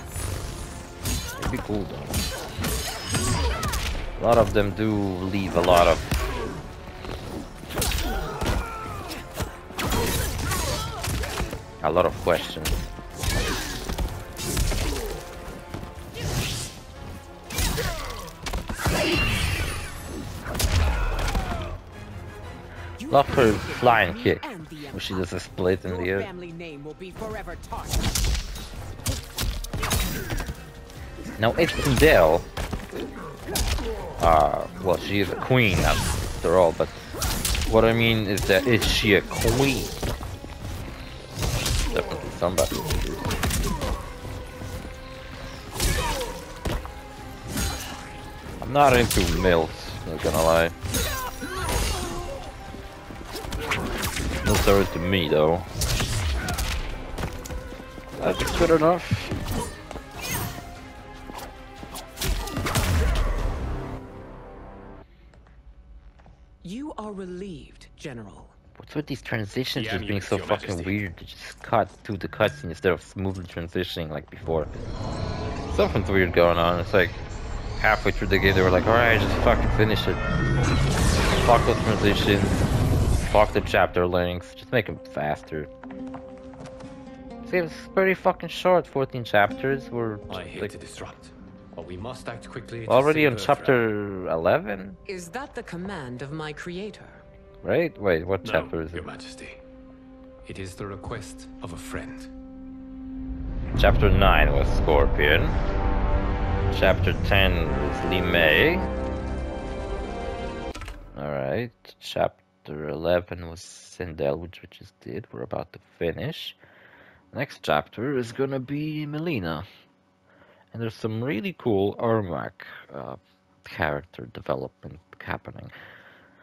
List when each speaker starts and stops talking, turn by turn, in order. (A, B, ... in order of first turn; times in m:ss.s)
0:01.4-0:02.2 A
0:04.2-0:06.1 A
0:11.8-0:12.9 A
0:23.0-0:28.1 B
0:23.1-0:26.3 A
0:31.4-0:32.5 A
0:34.2-0:37.2 A
0:37.7-0:40.0 A
0:41.9-0:43.3 A
0:48.6-0:50.8 A
0:54.4-0:55.7 A
0:58.2-0:59.4 A
1:06.6-1:08.5 B
1:08.8-1:14.9 A
1:09.7-1:11.0 C
1:15.7-1:17.2 A
1:17.8-1:20.2 A
1:21.3-1:22.7 A
1:23.2-1:25.7 A
1:27.4-1:30.7 A
1:30.3-1:33.8 C
1:32.9-1:35.0 A
1:35.1-1:37.2 B
1:37.6-1:39.1 A
1:38.4-1:39.6 C
1:40.4-1:42.3 C
1:43.8-1:45.6 A
1:46.7-1:48.9 A
1:51.1-1:56.6 A
1:57.3-1:59.7 A
2:00.7-2:05.7 A